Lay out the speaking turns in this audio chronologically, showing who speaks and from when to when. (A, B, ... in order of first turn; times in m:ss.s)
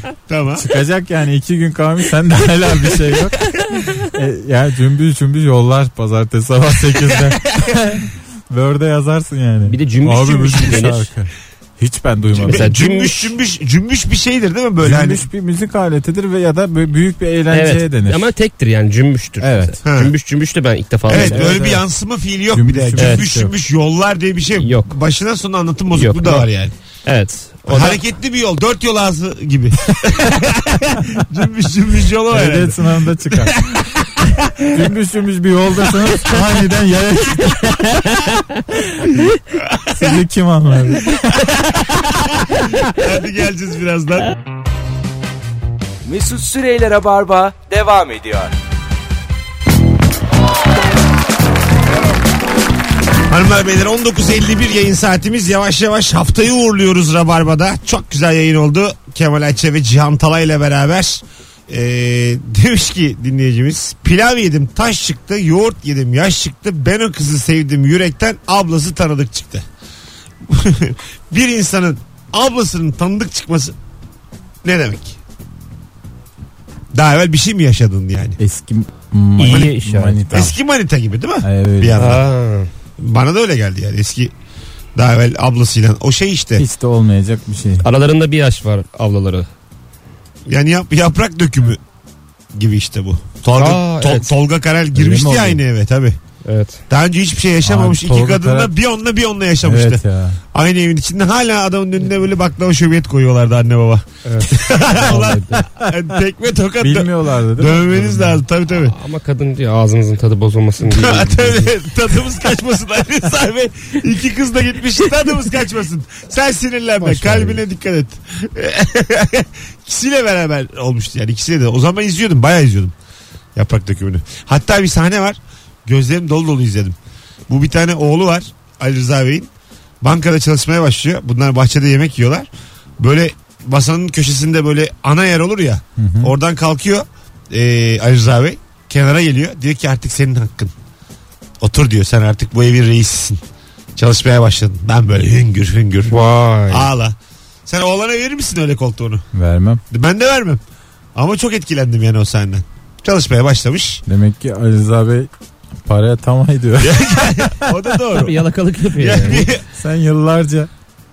0:00.3-0:00.6 A
0:00.6-0:12.7 B
0:09.7-0:11.1 C
0:12.4-0:13.3 C
0:12.4-0:15.3 A
0:14.8-0:18.2 B
0:17.5-0:21.6 C
0:19.4-0:19.8 B
0:19.8-0:20.1 A
0:21.1-0:26.7 A
0:21.1-0:21.8 B
0:22.5-0:23.5 B
0:23.0-0:23.2 C
0:24.6-0:25.0 C
0:25.9-0:26.5 C
0:27.0-0:28.0 C
0:27.7-0:34.7 A
0:32.3-0:33.7 B
0:34.7-0:38.1 B
0:39.9-0:41.3 B
0:42.5-0:44.3 A
0:46.0-0:48.5 D
0:53.3-1:09.6 A
1:10.5-1:13.7 A
1:14.6-1:15.2 A
1:16.9-1:18.4 A
1:18.4-1:20.6 B
1:19.4-1:20.2 C
1:20.3-1:22.2 A
1:21.4-1:22.1 B
1:22.0-1:22.7 C
1:23.0-1:24.3 A
1:25.0-1:26.6 A
1:26.6-1:27.8 B
1:27.8-1:29.5 C
1:30.5-1:31.8 A
1:32.5-1:36.2 A
1:33.5-1:34.3 C
1:34.9-1:35.6 B
1:36.4-1:36.8 C
1:36.9-1:48.9 A
1:37.6-1:38.7 B
1:39.6-1:40.4 B
1:44.2-1:45.6 C
1:45.0-1:45.9 B
1:46.8-1:48.4 B
1:48.7-1:51.7 C
1:50.8-2:02.9 A
1:57.0-1:57.6 B
2:03.5-2:07.0 A
2:07.5-2:09.5 A
2:10.0-2:20.7 A
2:16.0-2:16.3 B
2:21.6-2:23.4 A
2:24.0-2:27.1 A
2:26.1-2:26.9 C
2:27.7-2:29.2 A
2:29.3-2:29.8 B
2:29.9-2:30.6 A
2:31.1-2:34.0 A
2:34.0-2:35.3 B
2:35.8-2:37.0 B
2:36.8-2:38.4 A
2:38.1-2:39.5 C
2:39.0-2:39.6 A
2:39.8-2:40.7 B